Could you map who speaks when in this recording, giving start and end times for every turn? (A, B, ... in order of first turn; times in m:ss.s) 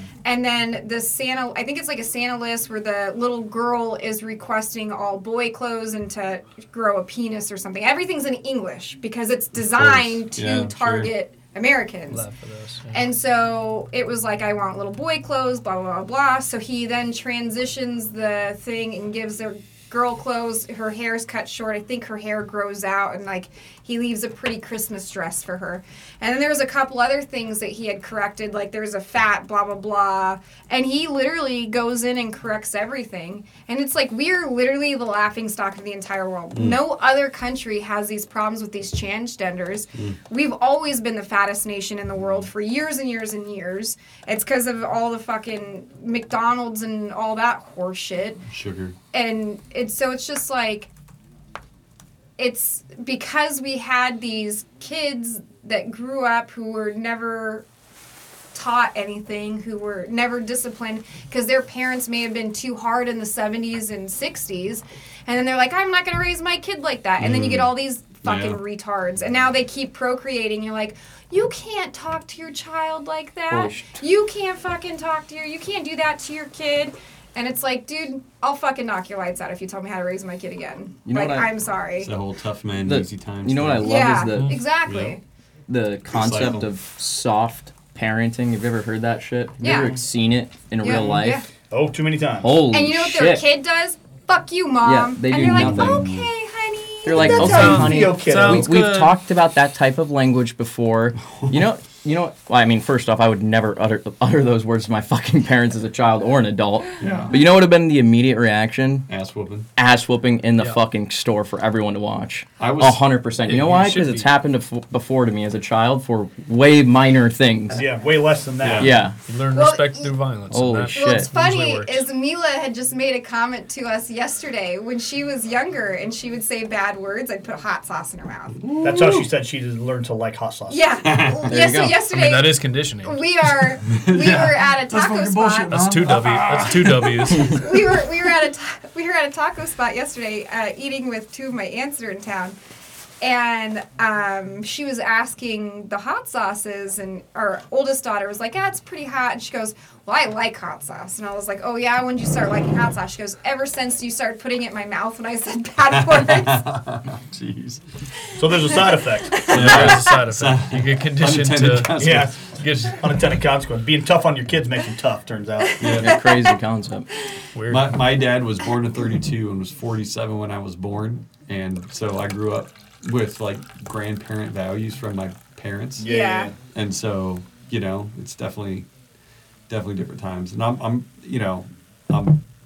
0:00.2-0:12.2 A
0:09.6-0:11.1 B
0:12.1-0:13.1 C
0:12.9-0:48.4 A
0:36.5-0:36.8 B
0:48.5-0:49.0 B
0:49.1-0:50.9 A
0:52.4-0:57.6 A
0:58.5-1:22.1 A
1:07.2-1:08.6 B
1:13.5-1:14.0 D
1:21.1-1:21.5 D
1:22.0-1:24.1 B
1:22.8-1:24.6 D
1:23.8-1:25.2 A
1:24.3-1:24.6 C
1:24.8-1:25.2 B
1:25.7-1:31.4 D
1:26.1-1:26.7 B
1:29.6-1:30.0 A
1:30.8-1:31.5 A
1:30.9-1:32.5 E
1:32.4-1:33.4 D
1:32.7-1:37.6 A
1:34.8-1:36.1 D
1:35.3-1:36.3 B
1:37.0-1:49.1 D
1:37.2-1:38.7 E
1:37.3-1:39.2 C
1:47.0-1:47.4 B
1:49.1-1:49.7 B
1:49.8-1:57.9 D
1:52.6-1:53.0 B
1:53.5-1:54.3 C
1:57.7-1:59.0 E
1:58.6-1:59.0 B
1:58.8-1:59.2 D
1:59.2-2:02.1 C
1:59.5-2:00.1 A
2:00.5-2:01.3 D
2:01.0-2:08.6 A
2:08.6-2:09.3 B
2:08.8-2:10.8 E
2:10.7-2:15.8 A
2:11.0-2:11.6 B
2:11.5-2:12.0 D
2:11.8-2:13.2 C
2:13.8-2:18.0 B
2:15.7-2:17.6 C
2:17.4-2:22.6 A
2:23.2-2:36.6 A
2:35.9-2:37.8 B
2:38.4-2:40.0 E
2:38.4-2:40.1 A
2:39.5-2:42.3 B
2:39.5-2:43.0 C
2:42.0-2:45.9 E
2:45.7-2:46.6 A
2:45.8-2:46.2 B
2:46.0-2:47.1 D
2:47.6-2:48.0 C
2:47.6-2:56.1 B
2:56.0-2:56.6 E
2:56.0-2:56.5 A
2:56.6-2:58.9 B
2:59.7-3:02.4 B